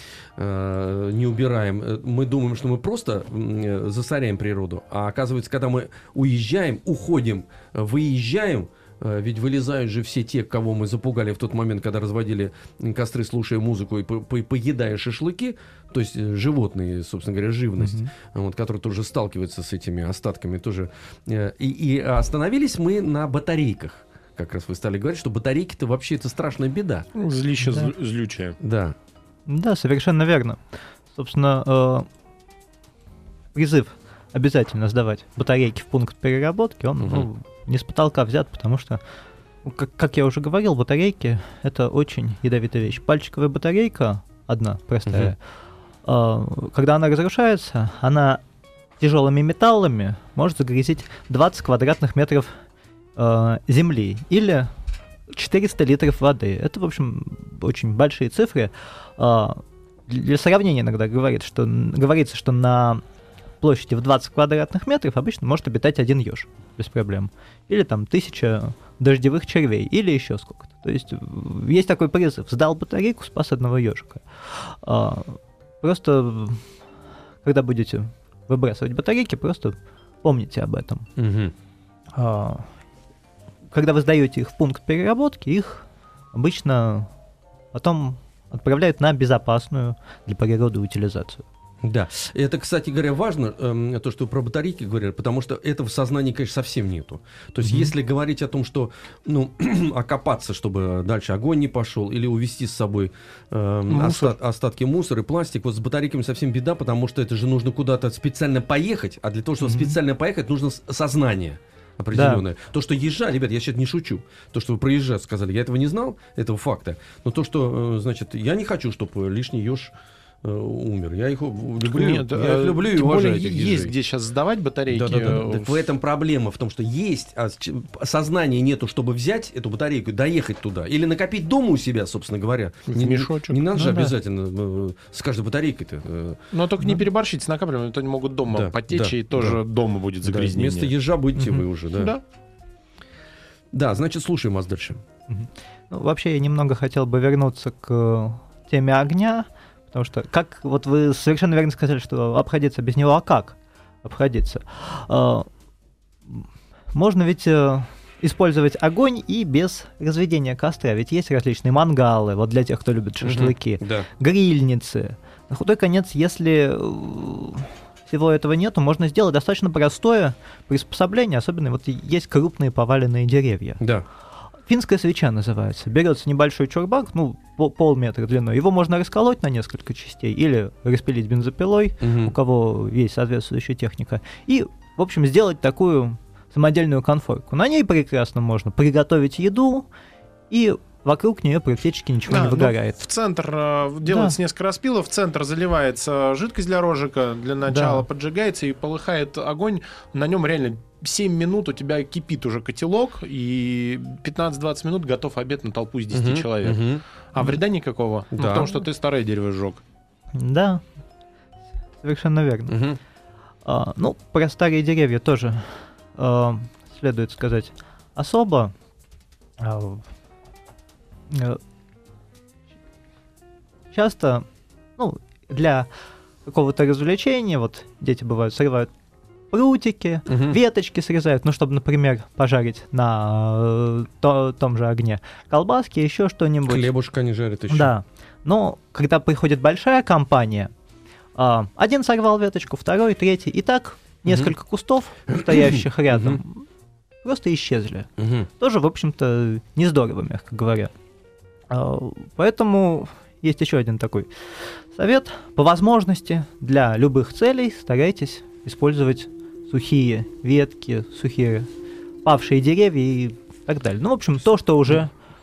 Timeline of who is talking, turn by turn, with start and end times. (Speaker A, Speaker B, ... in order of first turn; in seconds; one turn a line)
Speaker A: 0.4-27.1
Speaker B: 17.8-18.1
Speaker C: 27.1-28.6
Speaker B: 27.6-27.9
Speaker A: 28.6-28.9
Speaker B: 29.5-32.1
Speaker B: 33.5-39.0
Speaker A: 37.0-37.3
Speaker B: 39.6-45.4
Speaker A: 45.1-45.3
Speaker B: 46.0-48.4
Speaker B: 49.0-52.6
Speaker B: 53.2-54.7
Speaker B: 55.3-63.0
Speaker B: 63.6-76.7
Speaker B: 77.4-81.1
Speaker A: 81.2-81.5
Speaker B: 82.1-82.7
Speaker B: 83.7-87.1
Speaker B: 87.7-91.5
Speaker A: 91.8-123.9
Speaker B: 97.6-97.9
Speaker C: 103.9-104.4
Speaker B: 109.6-110.0
Speaker B: 112.1-112.4
Speaker C: 121.8-125.9
Speaker A: 124.9-136.4
Speaker C: 132.9-133.6
Speaker B: 133.7-134.1
Speaker C: 136.5-140.9
Speaker A: 138.5-139.6
Speaker A: 140.2-142.1
Speaker C: 141.9-142.2
Speaker A: 143.7-145.0
Speaker B: 145.3-155.5
Speaker B: 156.3-173.8
Speaker A: 163.2-164.1
Speaker A: 173.8-174.1
Speaker B: 174.7-189.9
Speaker A: 182.0-182.3
Speaker B: 190.5-193.0
Speaker C: 192.3-209.8
Speaker B: 194.1-194.4
Speaker B: 197.7-198.1
Speaker A: 206.1-207.0
Speaker A: 208.3-208.7
Speaker B: 210.3-210.8
Speaker B: 212.0-212.8
Speaker A: 212.7-213.0
Speaker B: 213.7-218.7
Speaker B: 219.6-220.1
Speaker B: 221.3-221.6
Speaker B: 223.9-224.5
Speaker B: 225.0-225.9
Speaker B: 226.4-228.9
Speaker B: 229.5-236.9
Speaker A: 230.3-230.6
Speaker A: 236.7-237.9
Speaker B: 237.7-240.7
Speaker B: 241.4-246.7
Speaker A: 244.3-244.5
Speaker A: 245.3-246.4
Speaker B: 247.2-250.9
Speaker A: 248.2-248.5
Speaker B: 251.7-261.7
Speaker B: 262.2-265.1